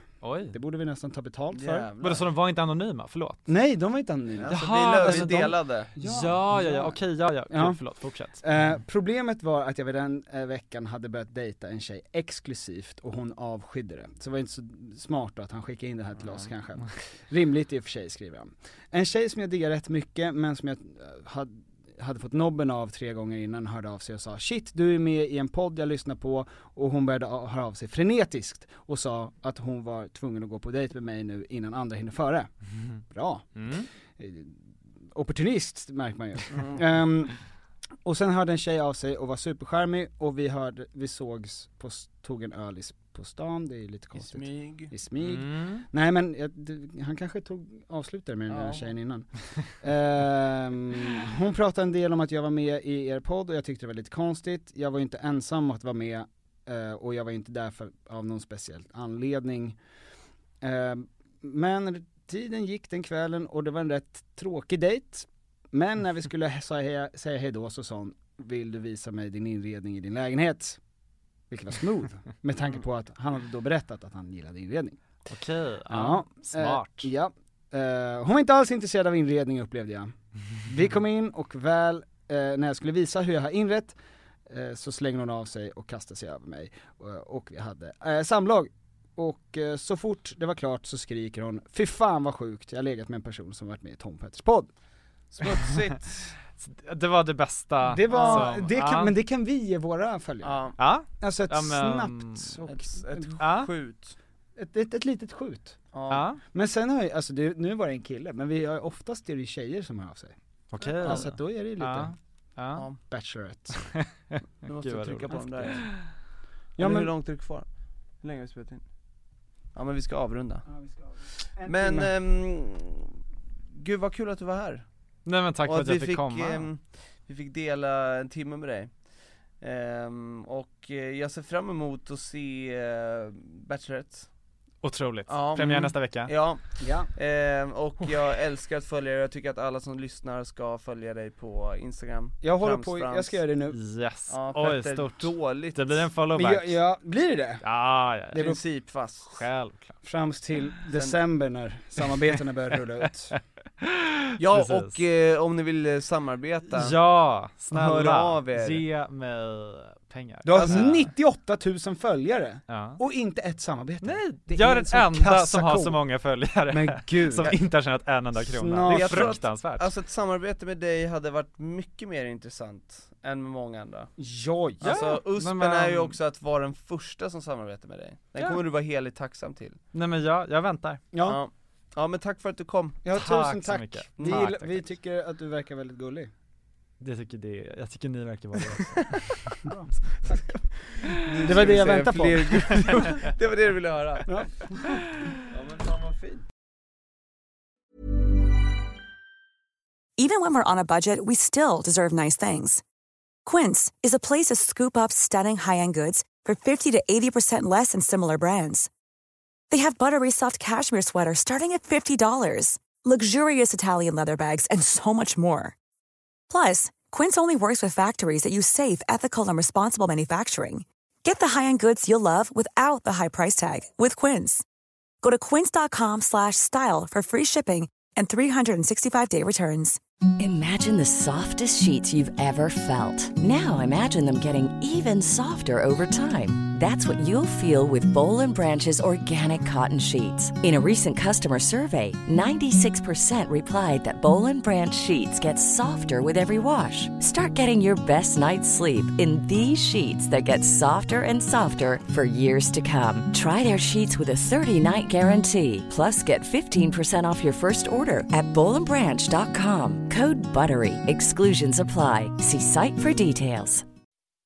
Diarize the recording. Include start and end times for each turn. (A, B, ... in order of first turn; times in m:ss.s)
0:00.2-0:00.6 A
0:00.5-0:01.9 B
0:01.5-0:02.3 C
0:02.0-0:03.5 A
0:03.5-0:07.8 B
0:04.4-0:05.9 C
0:04.5-0:08.4 A
0:08.4-0:32.5 B
0:33.1-0:34.6 B
0:33.6-0:33.9 A
0:35.1-0:37.4 B
0:36.5-0:36.8 C
0:38.0-0:59.8 B
0:44.1-0:44.9 C
0:45.2-0:45.8 A
0:48.5-0:48.9 C
1:00.6-1:10.8 B
1:11.5-1:15.0 B
1:15.3-1:17.1 A
1:15.9-1:24.0 B
1:24.5-1:34.7 B
1:35.3-1:36.3 C
1:36.6-1:39.1 A
1:37.8-1:43.3 B
1:38.1-1:38.5 C
1:40.4-1:40.8 C
1:40.8-1:42.6 A
1:42.7-1:44.2 C
1:43.4-1:43.7 A
1:44.6-1:45.8 B
1:45.9-1:46.3 C
1:46.1-1:46.4 A
1:46.5-1:50.3 B
1:50.7-1:52.9 A
1:50.8-1:51.2 C
1:51.0-1:52.1 B
1:53.1-1:53.8 B
1:53.8-1:56.1 A
1:54.6-1:55.8 C
1:55.3-1:55.7 B
1:56.8-1:57.1 B
1:56.8-1:57.6 C
1:58.2-1:58.8 C
1:59.7-2:00.7 C
2:00.7-2:02.1 B
2:01.6-2:03.1 C
2:03.7-2:04.8 C
2:05.2-2:06.7 A
2:05.6-2:09.0 C
2:09.6-2:14.3 C
2:14.8-2:16.3 A
2:15.3-2:23.4 C
2:16.8-2:17.1 B
2:22.4-2:23.8 B
2:23.7-2:26.8 A
2:24.3-2:26.1 C
2:26.3-2:27.6 B
2:27.6-2:28.5 A
2:28.3-2:28.6 B
2:28.3-2:29.5 C
2:29.3-2:30.0 A
2:30.0-2:33.3 B
2:30.9-2:31.2 C
2:33.8-2:35.0 A
2:34.4-2:37.0 C
2:36.7-2:41.1 A
2:37.7-2:38.8 C
2:40.4-2:46.0 B
2:40.5-2:40.9 C
2:42.7-2:43.0 A
2:44.0-2:49.9 A
2:46.7-2:47.5 B
2:48.4-2:49.4 B
2:48.9-2:54.1 C
2:54.2-2:55.0 B
2:54.8-2:59.8 C
2:54.8-2:56.2 A
2:59.9-3:01.0 A
3:01.1-3:01.4 B
3:01.2-3:03.0 C
3:03.0-3:06.3 B
3:03.1-3:04.8 A
3:04.2-3:04.4 C
3:07.0-3:09.7 A
3:09.6-3:10.4 B
3:11.0-3:11.9 A
3:11.2-3:14.4 C
3:11.2-3:13.0 B
3:12.7-3:13.3 A
3:14.3-3:15.0 B
3:15.5-3:16.4 C
3:20.2-3:22.8 D
3:23.4-3:28.9 D
3:29.7-3:35.7 D
3:36.5-3:44.6 D
3:45.2-3:50.0 D
3:50.4-4:23.8 E